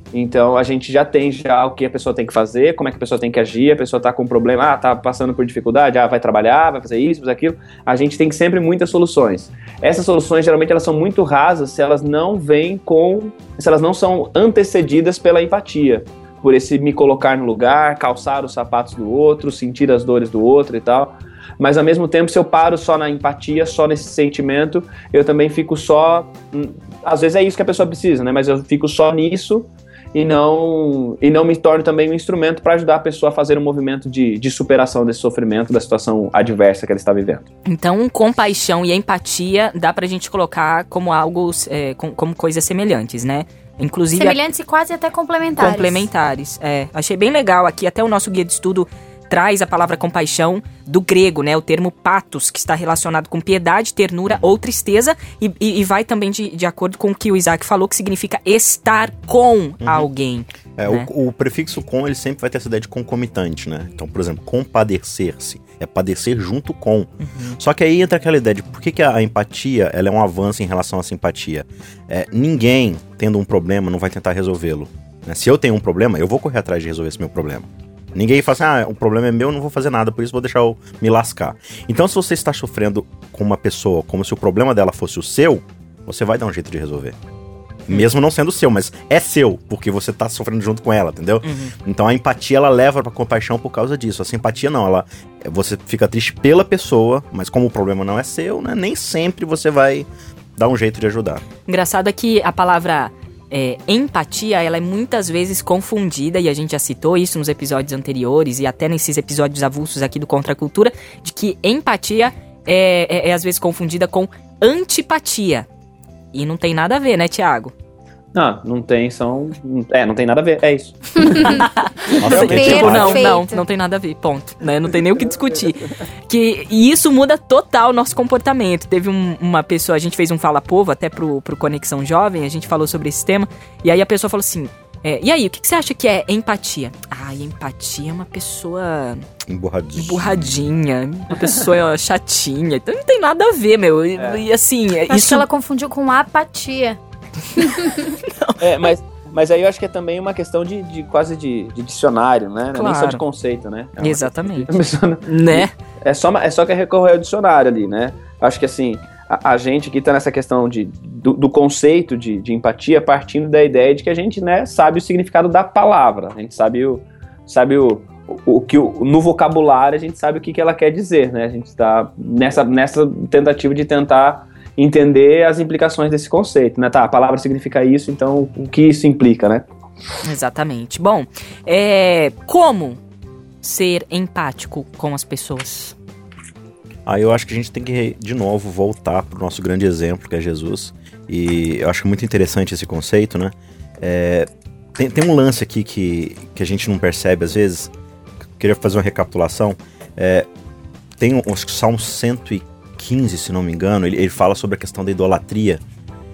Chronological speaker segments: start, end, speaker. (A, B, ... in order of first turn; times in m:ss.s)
0:00.1-0:37.5 A
0:37.7-0:44.4 B
0:44.2-0:46.1 C
0:45.6-1:01.1 B
0:59.8-1:00.1 D
1:00.8-1:27.2 D
1:07.2-1:07.6 B
1:27.9-1:41.4 D
1:31.4-1:31.8 B
1:41.7-1:55.7 B
1:56.3-1:57.7 B
1:58.3-2:01.6 A
2:01.2-2:01.6 C
2:01.4-2:19.2 B
2:02.2-2:03.2 D
2:02.2-2:03.6 C
2:19.5-2:20.5 D
2:20.0-2:25.5 B
2:25.1-2:27.0 C
2:27.5-2:28.1 C
2:28.2-2:28.6 B
2:28.6-2:59.6 A
2:32.7-2:33.2 B
2:34.0-2:34.7 B
2:35.2-2:35.7 B
3:00.2-3:03.0 B
3:03.6-3:06.0 B
3:07.1-3:17.9 D
3:18.6-3:20.5 D
3:21.2-3:25.8 D